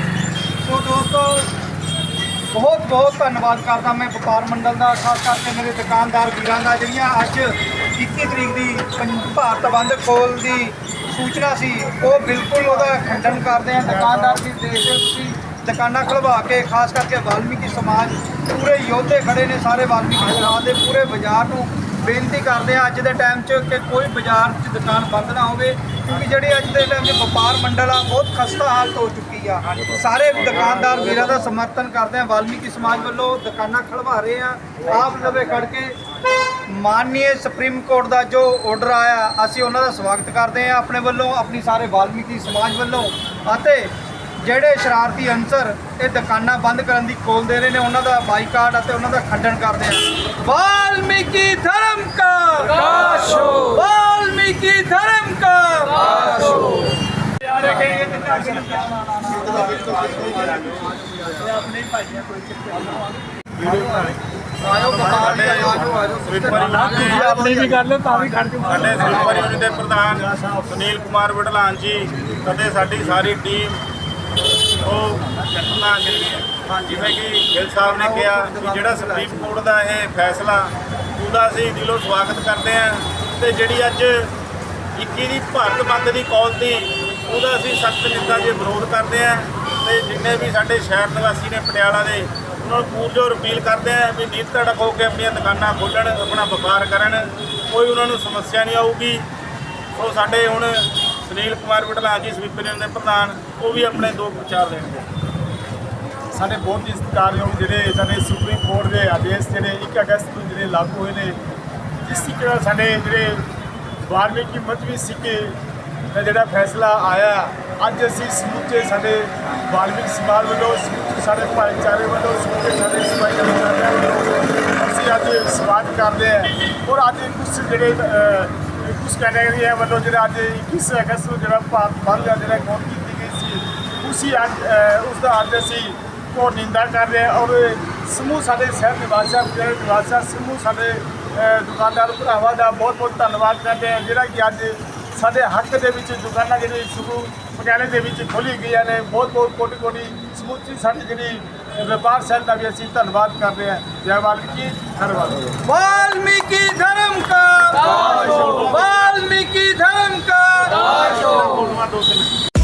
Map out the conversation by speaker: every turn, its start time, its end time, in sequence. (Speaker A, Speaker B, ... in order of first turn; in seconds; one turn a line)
Speaker A: 0.6-1.5
Speaker A: 2.5-36.0
Speaker A: 36.7-56.9
Speaker A: 57.5-60.4
Speaker A: 61.0-61.7
Speaker B: 63.6-64.1
Speaker A: 64.6-69.0
Speaker C: 64.8-67.3
Speaker C: 68.6-73.8
Speaker B: 70.2-70.6
Speaker C: 74.8-84.3
Speaker A: 76.7-77.0
Speaker A: 77.9-79.5
Speaker C: 85.0-99.2
Speaker C: 99.9-105.1
Speaker B: 106.3-111.4
Speaker B: 112.0-113.5
Speaker B: 114.0-115.5
Speaker B: 116.1-155.6
Speaker A: 155.6-161.3
Speaker C: 158.0-159.0
Speaker C: 160.9-162.3